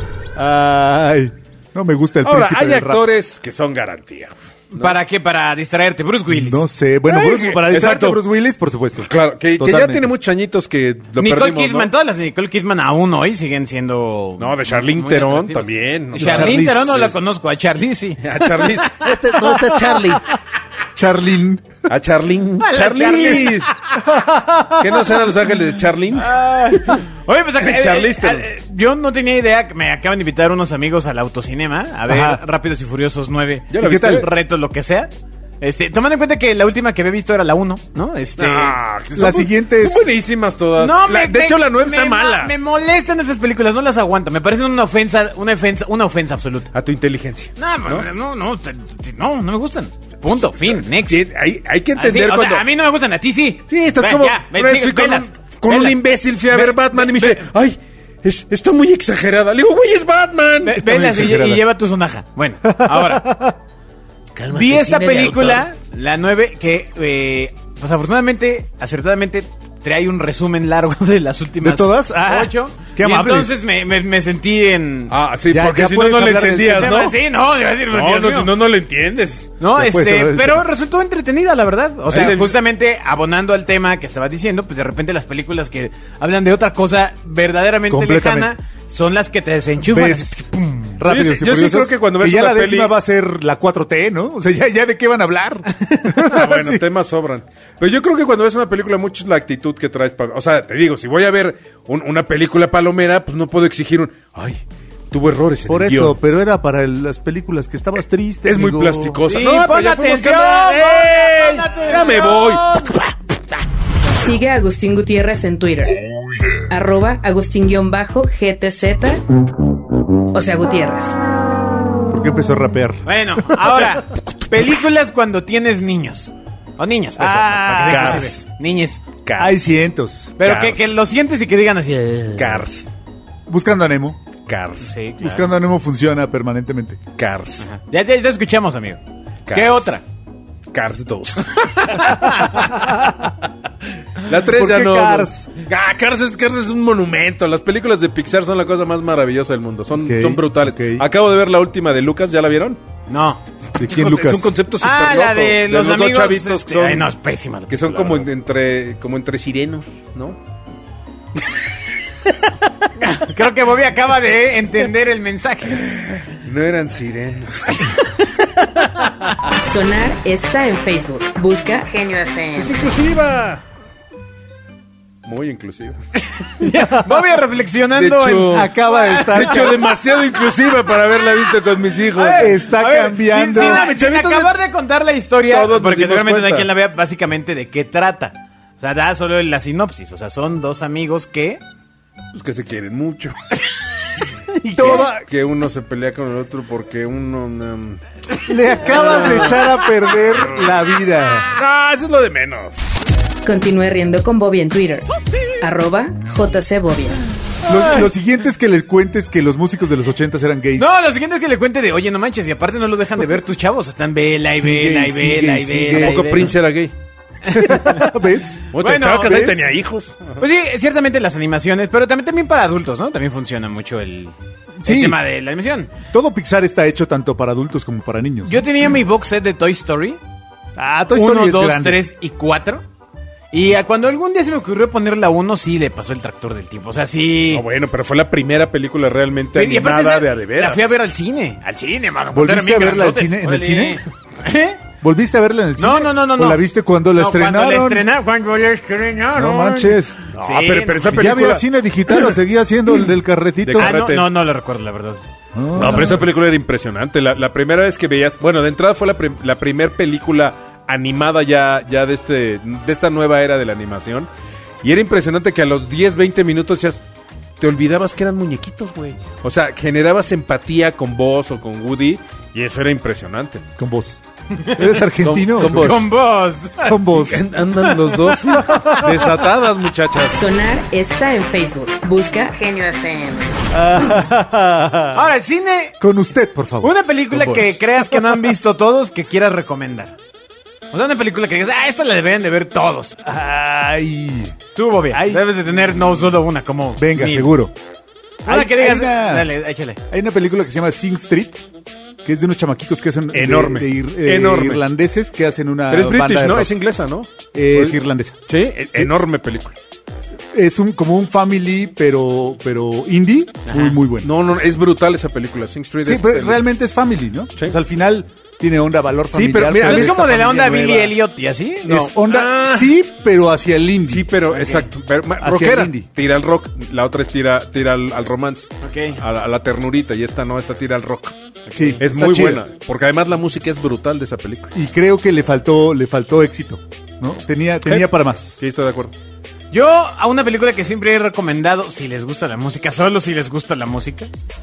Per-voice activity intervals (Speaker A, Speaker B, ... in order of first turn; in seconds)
Speaker A: 0.4-3.0, 6.3-10.1, 16.1-17.1, 20.9-21.8, 24.0-25.1, 32.1-32.4, 33.8-34.3, 39.1-40.0, 60.8-61.6, 62.6-63.6, 71.6-73.6, 75.5-77.0, 79.7-80.7, 87.9-88.5, 89.9-96.8, 105.7-109.2, 122.1-123.0, 127.2-128.3, 129.4-130.4, 133.5-134.2, 135.2-137.0, 144.4-145.5, 149.9-151.1, 153.8-154.5, 176.7-177.2, 178.5-179.8, 182.3-184.0, 194.6-195.2, 198.5-201.5, 207.7-210.9, 214.6-216.5, 217.4-219.6, 224.8-225.2, 226.1-228.6, 230.8-232.0, 242.3-244.1, 245.0-248.1, 249.3-250.2, 251.1-254.0, 255.6-256.3, 273.8-276.1, 276.8-277.5, 278.6-279.3, 283.7-285.3, 286.0-287.6, 293.2-294.6, 295.1-295.5, 297.0-297.7, 298.5-299.5, 300.1-301.6, 302.2-306.7, 307.5-308.4, 310.5-314.3, 316.0-321.1, 321.9-324.3, 325.4-326.1, 331.8-332.6, 334.7-338.5
Speaker B: 2.2-5.0, 7.1-8.2, 9.0-11.9, 14.4-17.1, 18.2-19.0, 21.9-23.7, 24.8-26.4, 27.6-28.5, 33.7-34.3, 38.4-42.5, 46.7-48.1, 50.7-52.6, 53.7-60.8, 75.1-77.2, 77.9-79.5, 82.1-82.6, 91.0-93.0, 96.2-106.2, 108.5-113.6, 127.8-128.4, 129.2-129.7, 130.4-130.9, 132.3-132.9, 134.5-134.9, 137.2-137.7, 139.5-139.9, 140.7-142.9, 144.2-152.8, 153.9-157.1, 157.7-160.4, 166.0-168.0, 172.5-173.6, 175.2-176.0, 177.9-182.6, 183.5-184.5, 185.5-186.7, 192.3-193.3, 194.8-198.0, 198.9-199.6, 201.5-202.8, 215.9-216.9, 218.7-220.4, 237.5-240.9, 250.3-252.3, 253.6-254.3, 255.8-264.3, 264.8-267.0, 267.6-273.6, 275.2-276.1, 277.1-280.4, 287.3-287.7, 303.3-304.8, 305.9-309.8, 314.1-316.7, 319.3-320.6, 322.1-323.0, 324.1-331.4, 332.0-334.7, 337.9-339.1
Speaker C: 4.7-6.6, 11.2-20.1, 22.6-23.8, 26.1-38.8, 40.8-46.7, 47.6-51.2, 52.0-56.0, 56.5-57.4, 60.6-63.2, 64.5-75.2, 76.6-78.5, 79.6-90.9, 109.2-113.0, 123.1-129.1, 130.4-132.6, 134.8-135.5, 137.6-139.0, 139.5-140.0, 141.8-142.7, 153.1-153.4, 154.8-158.3, 163.0-165.9, 168.8-169.1, 176.5-179.9, 182.1-191.6, 199.0-199.7, 207.7-208.1, 210.8-216.6, 217.5-218.0, 218.8-219.5, 220.4-225.9, 228.5-230.2, 231.1-232.8, 233.5-237.6, 239.6-244.8, 245.8-251.1, 253.8-255.2, 275.6-277.3, 277.9-278.4, 285.1-286.0, 286.8-290.1, 290.9-293.2, 294.8-297.5, 298.4-300.0, 313.7-314.0, 319.6-322.1, 324.5-324.9, 328.8-329.2, 331.7-332.0, 339.7-344.3
Speaker D: 19.0-20.2, 64.4-65.7
Speaker E: 114.1-116.0, 116.5-119.2, 120.3-121.2, 169.6-172.8, 203.4-205.1, 205.6-207.2, 280.3-283.6